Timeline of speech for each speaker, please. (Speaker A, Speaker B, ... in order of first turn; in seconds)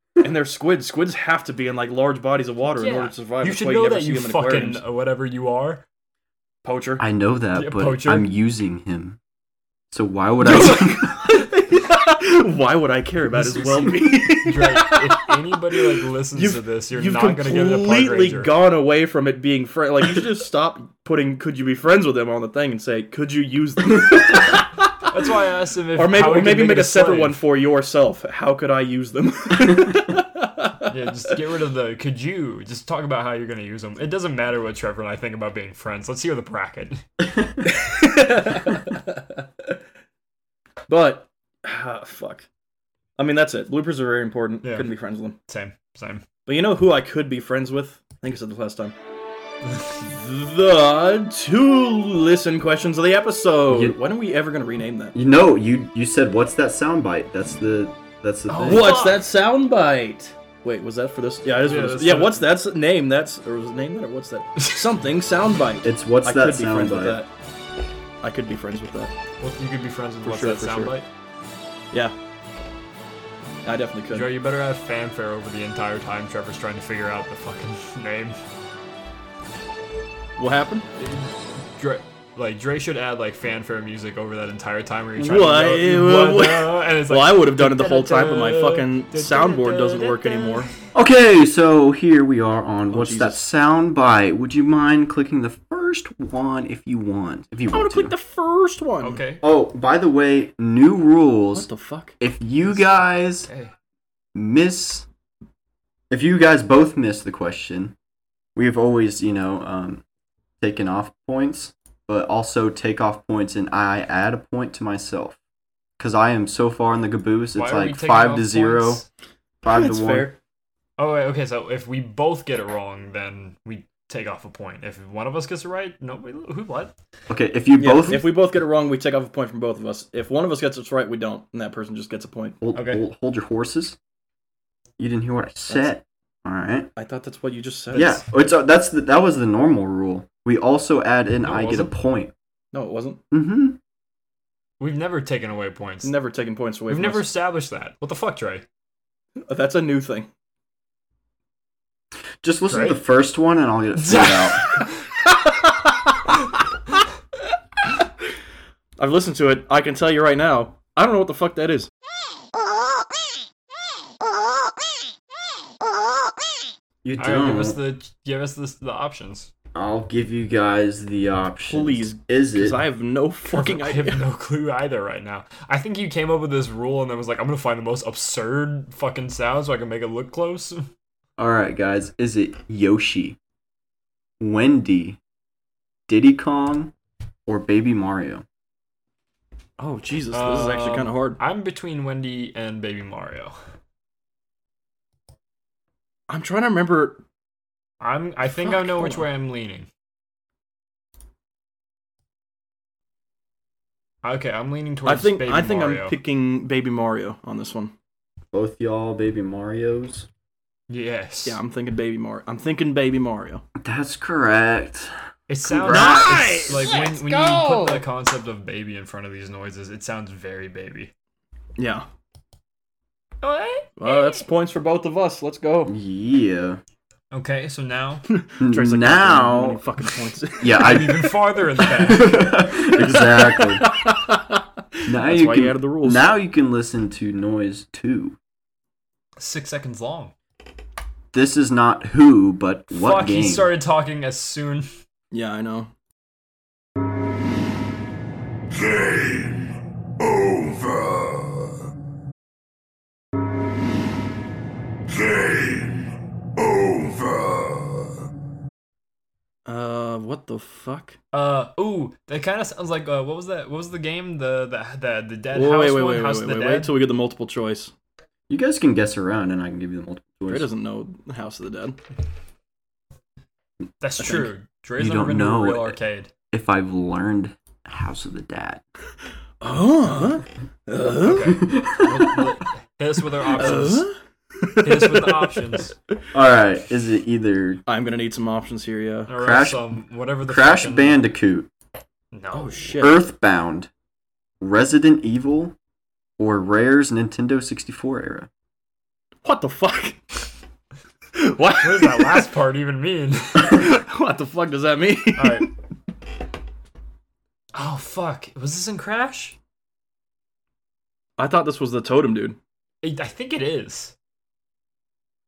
Speaker A: 0.2-4.8, 6.6-7.0, 10.4-25.1, 25.9-31.3, 37.6-39.8, 40.9-42.5, 43.2-45.4, 46.5-48.9, 50.0-55.1, 58.6-67.3, 68.2-69.1, 70.2-70.9, 73.6-74.3, 80.4-80.8, 85.2-90.7, 92.9-93.4, 97.7-99.2, 101.5-102.2, 119.7-120.4, 127.8-132.6, 136.9-138.2, 142.7-143.2, 146.0-147.2, 149.4-150.3, 155.3-156.4, 159.0-161.9, 171.7-174.2, 189.8-191.4, 196.3-197.2, 198.5-199.2, 205.0-207.9, 211.4-213.6, 215.8-218.0, 221.8-222.0, 224.0-225.9, 228.3-231.0, 233.0-236.3, 245.3-245.9, 259.6-261.2, 265.5-267.9, 270.5-272.0, 274.2-274.5, 279.6-281.6, 283.5-285.9, 287.9-289.3, 292.5-293.2, 299.4-300.2, 301.3-302.5, 303.6-305.7, 311.4-312.6
Speaker B: 2.8-5.8, 7.5-8.3, 13.3-18.5, 25.1-27.4, 30.9-37.0, 44.6-44.9, 45.5-46.2, 49.7-50.0, 58.5-59.2, 61.6-62.5, 64.6-64.9, 69.4-71.0, 74.1-78.4, 81.0-90.7, 99.0-99.4, 102.6-103.7, 117.5-119.0, 121.0-126.9, 132.7-133.0, 141.4-141.9, 144.8-146.1, 146.9-148.6, 154.1-154.5, 167.2-169.5, 173.5-180.9, 190.3-193.5, 198.0-199.9, 204.2-206.1, 210.9-211.6, 215.5-221.1, 223.4-224.4, 227.3-228.2, 230.7-232.5, 239.4-240.3, 242.9-244.9, 261.3-266.9, 274.0-276.3, 281.2-284.1, 284.8-285.9, 289.3-291.2, 292.3-292.9, 301.8-303.9, 305.4-305.7, 307.7-309.6, 313.0-314.1
Speaker C: 7.0-9.2, 9.9-11.4, 53.7-54.0, 55.1-59.0, 65.8-67.2, 90.9-98.1, 99.4-101.7, 102.2-103.5, 104.3-105.0, 106.1-107.9, 108.5-110.0, 110.6-115.4, 116.0-119.0, 119.6-120.3, 127.3-128.3, 132.6-134.0, 135.0-136.9, 137.9-142.3, 143.3-143.8, 152.4-154.7, 167.0-167.8, 169.7-172.8, 181.4-183.4, 184.4-185.2, 186.1-186.9, 187.5-188.4, 208.5-210.3, 213.8-215.1, 215.6-216.8, 225.9-226.8, 228.6-229.8, 230.6-231.3, 231.9-233.9, 235.1-238.4, 241.3-243.7, 268.5-270.7, 275.0-276.0, 276.5-278.8, 281.5-282.5, 286.3-287.8, 289.4-291.7, 293.0-293.9, 294.6-295.8, 296.4-298.5